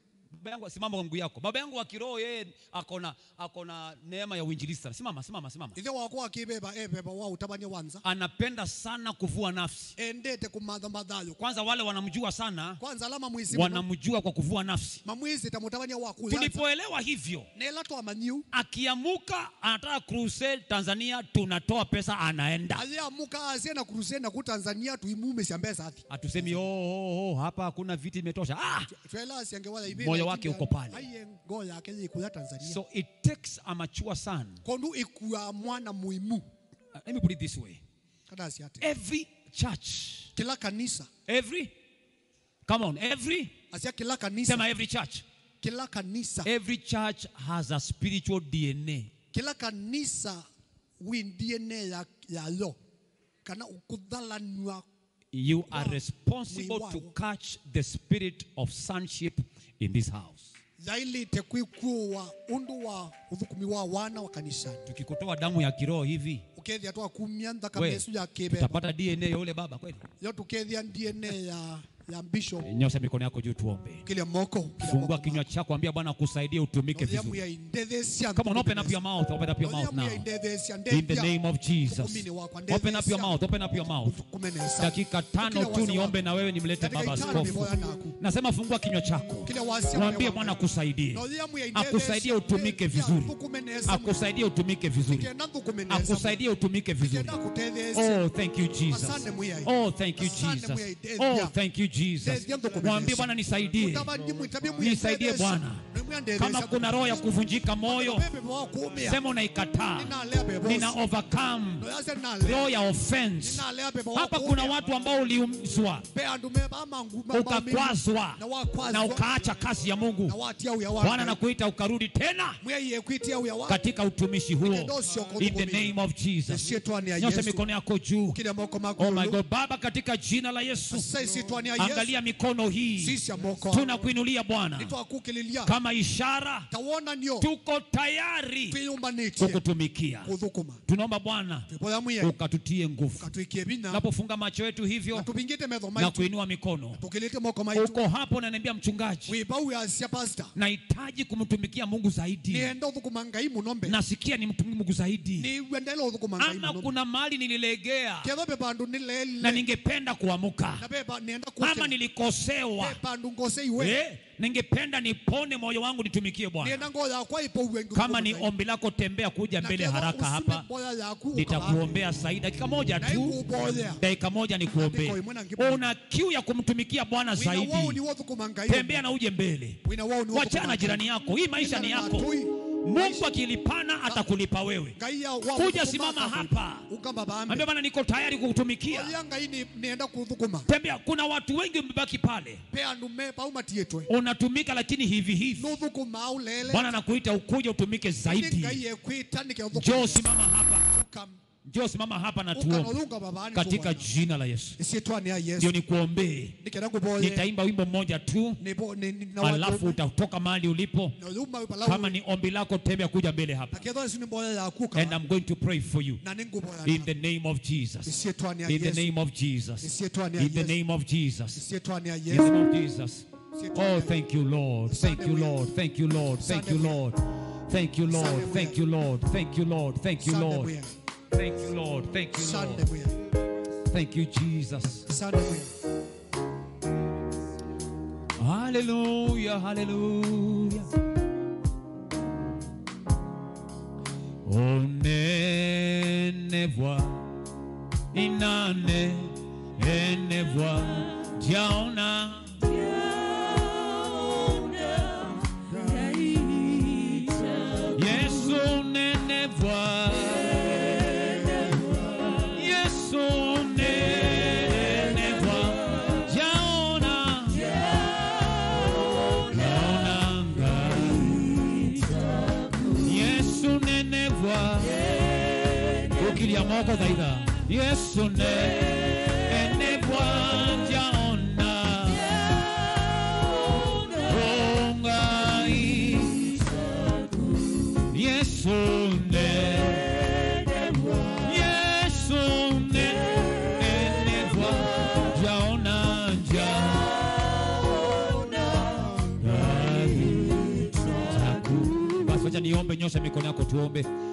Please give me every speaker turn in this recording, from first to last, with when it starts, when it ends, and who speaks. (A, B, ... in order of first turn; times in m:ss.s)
0:00.3-0:05.8 A
0:05.8-0:08.0 B
0:08.0-0:09.9 A
0:10.0-0:11.4 B
0:11.4-0:12.8 A
0:12.8-0:13.8 B
0:13.5-0:15.0 A
0:15.0-0:16.6 B
0:16.3-0:17.5 A
0:17.5-0:18.5 B
0:18.5-0:22.8 A
0:22.7-0:26.6 B
0:26.1-0:28.9 A
0:28.9-0:32.8 B
0:29.9-0:31.1 A
0:32.6-0:34.6 A
0:34.6-0:36.4 B
0:36.9-0:37.8 A
0:38.3-0:38.9 B
0:38.8-0:40.3 A
0:40.3-0:41.1 B
0:41.3-0:41.7 A
0:42.7-0:43.5 A
0:43.7-0:44.6 B
0:44.4-0:45.2 A
0:45.6-0:46.5 B
0:46.4-0:49.1 A
0:49.3-0:50.4 B
0:51.0-0:52.8 B
0:53.4-0:54.8 B
0:55.3-1:00.5 A
0:55.7-0:57.1 B
1:00.8-1:04.8 B
1:04.8-1:06.4 A
1:06.6-1:08.8 B
1:07.7-1:10.0 A
1:10.2-1:12.7 B
1:12.6-1:14.0 A
1:14.0-1:15.5 B
1:14.8-1:17.4 A
1:16.9-1:19.0 B
1:18.3-1:20.2 A
1:19.6-1:26.2 B
1:20.9-1:24.2 A
1:24.8-1:33.3 A
1:26.8-1:28.1 B
1:29.4-1:30.6 B
1:31.1-1:34.2 B
1:33.9-1:35.3 A
1:35.0-1:36.4 B
1:35.9-1:37.4 A
1:37.0-1:38.2 B
1:37.9-1:44.1 A
1:38.9-1:41.5 B
1:42.2-1:47.2 B
1:44.8-1:45.8 A
1:46.4-1:48.2 A
1:47.8-1:49.2 B
1:49.0-1:50.1 A
1:49.9-1:51.0 B
1:50.6-1:51.8 A
1:51.8-1:52.7 B
1:52.4-1:56.1 A
1:53.4-1:54.8 B
1:56.1-1:59.3 B
1:57.3-2:00.4 A
2:00.2-2:01.4 B
2:01.0-2:02.6 A
2:02.6-2:03.8 B
2:03.7-2:08.4 A
2:04.7-2:05.9 B
2:06.5-2:07.6 B
2:08.3-2:09.4 B
2:09.0-2:11.1 A
2:10.9-2:12.1 B
2:11.8-2:13.2 A
2:13.0-2:14.1 B
2:13.7-2:14.9 A
2:14.8-2:15.7 B
2:15.6-2:16.7 A
2:16.7-2:17.5 B
2:17.4-2:18.8 A
2:18.7-2:19.6 B
2:19.4-2:20.3 A
2:20.2-2:20.8 B
2:20.9-2:23.3 A
2:21.7-2:22.4 B
2:23.2-2:24.0 B
2:23.9-2:25.3 A
2:25.1-2:26.3 B
2:26.0-2:27.0 A
2:27.0-2:28.0 B
2:27.7-2:29.3 A
2:29.3-2:30.5 B
2:30.6-2:32.7 A
2:32.5-2:34.0 B
2:33.8-2:35.5 A
2:35.4-2:36.9 B
2:36.4-2:38.3 A
2:38.2-2:39.7 B
2:39.4-2:40.8 A
2:40.8-2:42.0 B
2:41.6-2:43.0 A
2:42.8-2:44.0 B
2:43.8-2:46.9 A
2:46.6-2:48.5 B
2:47.9-2:50.6 A
2:49.6-2:52.0 B
2:51.3-2:58.0 A
2:53.0-2:54.0 B
2:54.7-2:55.9 B
2:57.3-2:59.0 B
2:58.7-2:59.8 A
2:59.8-3:03.3 B
3:00.3-3:05.0 A
3:05.0-3:07.6 B
3:05.5-3:06.9 A
3:07.5-3:09.1 A
3:08.9-3:10.7 B
3:10.7-3:12.6 A
3:12.7-3:14.1 B
3:14.1-3:15.7 A
3:15.6-3:17.0 B
3:16.7-3:18.8 A
3:18.2-3:20.4 B
3:19.7-3:20.9 A
3:20.9-3:21.4 B
3:21.6-3:23.0 A
3:22.5-3:24.1 B
3:23.5-3:24.8 A
3:24.8-3:25.7 B
3:25.6-3:26.6 A
3:26.6-3:27.5 B
3:27.2-3:28.6 A
3:28.6-3:30.0 B
3:29.4-3:31.2 A
3:31.2-3:32.2 B
3:31.8-3:33.8 A
3:33.7-3:35.2 B
3:34.9-3:36.2 A
3:36.2-3:37.1 B
3:36.8-3:38.1 A
3:38.0-3:39.1 B
3:38.7-3:41.6 A
3:39.8-3:40.8 B
3:41.6-3:42.5 B
3:42.3-3:50.7 A
3:43.5-3:44.1 B
3:44.9-3:45.6 B
3:46.2-3:47.0 B
3:48.1-3:48.8 B
3:50.2-3:50.9 B
3:51.3-3:52.9 A
3:52.3-3:53.2 B
3:53.9-3:55.1 A
3:55.1-3:55.7 B
3:58.4-4:00.9 A
4:04.4-4:07.3 A
4:08.1-4:12.8 A
4:15.7-4:21.4 A
4:22.2-4:28.0 A
4:28.7-4:32.1 A
4:32.9-4:42.6 A
4:44.1-4:46.6 A
4:48.0-4:50.3 A
4:51.2-4:57.3 A
4:59.2-5:04.1 A